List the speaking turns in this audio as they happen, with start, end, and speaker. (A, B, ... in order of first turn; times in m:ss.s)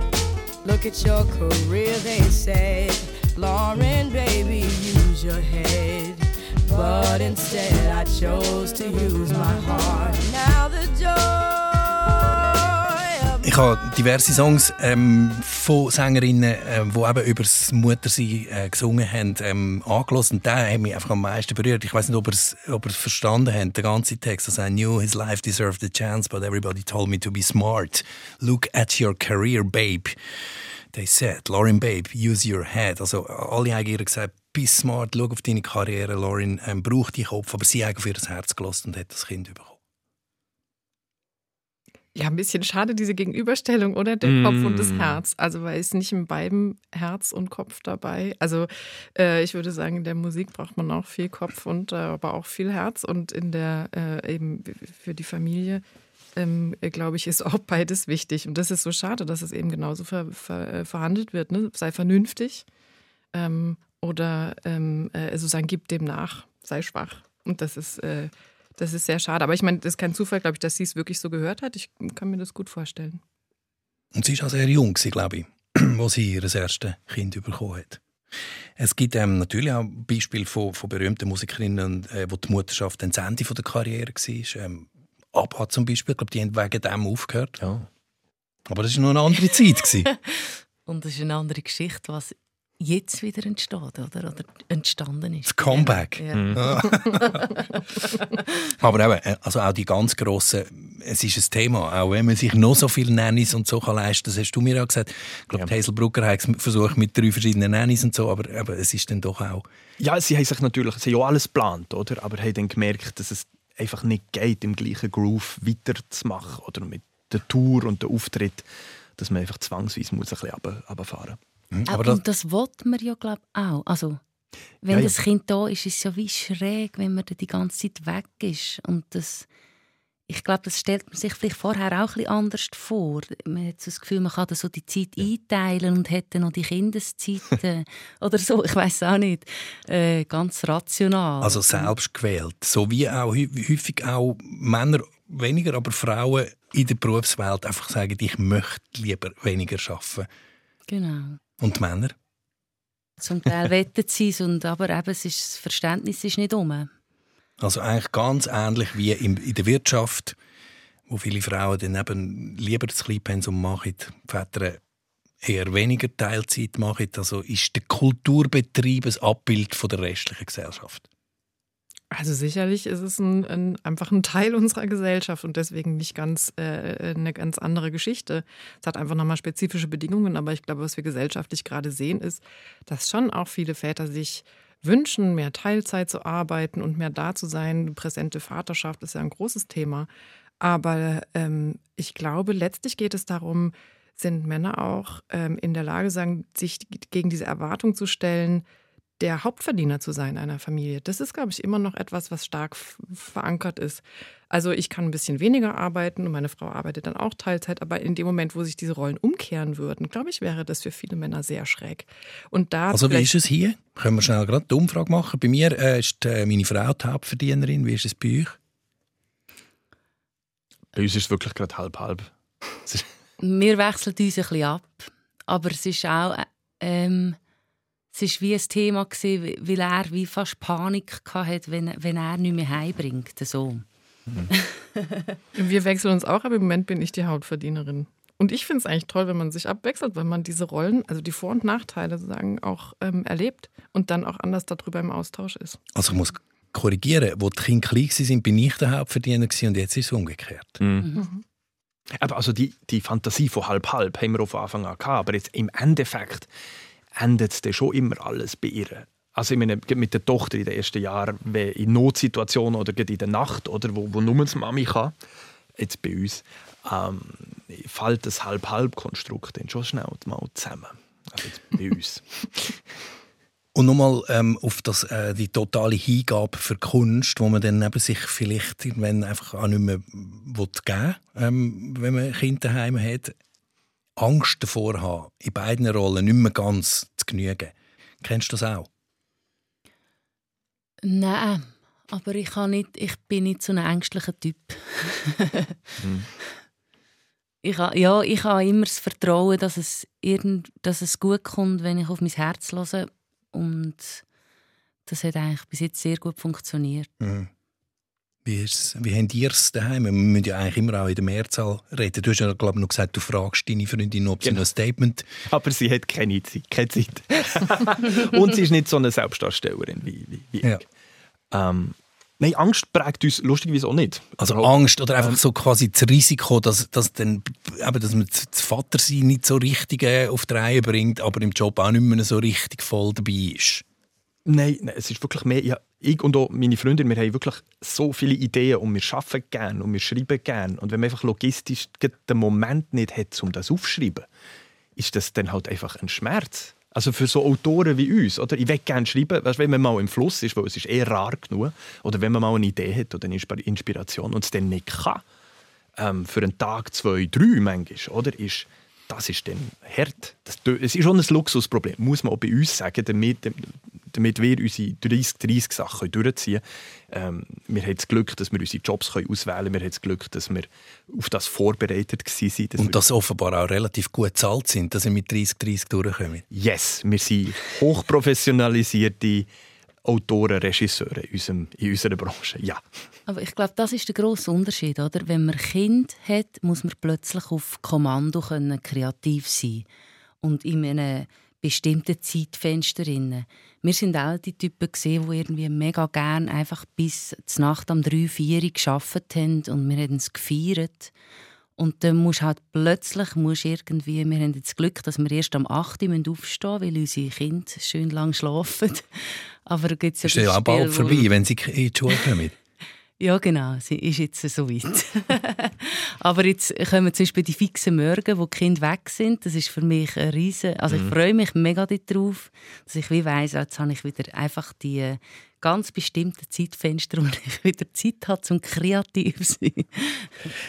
0:00.6-0:13.4 A
0:13.4-0:30.1 B
0:30.9-0:39.8 B
0:42.1-0:55.8 C
0:44.2-0:45.2 D
0:56.4-1:02.6 C
1:03.3-1:13.2 C
1:14.1-1:18.0 B
1:18.8-1:27.6 B
1:27.6-1:27.9 D
1:28.7-1:30.1 B
1:30.1-1:38.2 E
1:35.4-1:37.4 B
1:36.3-1:36.6 D
1:38.8-1:49.6 B
1:50.0-1:58.6 D
1:59.2-2:01.4 D
2:01.7-2:02.2 B
2:01.9-2:04.2 E
2:04.8-2:09.5 E
2:04.9-2:05.1 D
2:10.3-2:21.9 E
2:21.4-2:30.3 B
2:30.9-2:31.4 E
2:31.6-2:32.1 B
2:33.2-2:36.9 E
2:37.6-2:40.4 B
2:41.1-2:44.8 B
2:45.4-2:51.0 B
2:52.1-3:10.1 C
3:10.6-3:18.6 C
3:19.2-3:33.3 C
3:32.9-3:38.6 B
3:40.9-3:42.3 D
3:43.4-3:47.4 E
3:48.1-3:53.8 E
3:54.5-3:55.3 E
3:55.5-4:05.8 C
4:05.9-4:10.8 B
4:10.8-4:11.1 D
4:11.2-4:11.4 C
4:12.1-4:16.5 D
4:17.1-4:25.1 D
4:25.8-4:32.8 D
4:33.7-4:43.3 B
4:44.2-4:48.9 B
4:51.0-4:55.8 E
4:56.0-4:56.3 D
4:57.6-5:04.2 E
5:05.0-5:07.1 E
5:07.2-5:07.5 B
5:08.4-5:15.3 B
5:15.5-5:20.8 D
5:21.5-5:25.4 D
5:24.4-5:33.8 B
5:34.4-5:44.2 D
5:45.0-5:55.2 D
5:56.0-6:13.0 D
6:12.8-6:16.4 B
6:16.5-6:19.5 D
6:20.0-6:22.8 D
6:23.3-6:29.8 E
6:30.4-6:41.1 E
6:41.8-6:51.3 E
6:50.2-6:52.5 B
6:53.2-7:10.3 E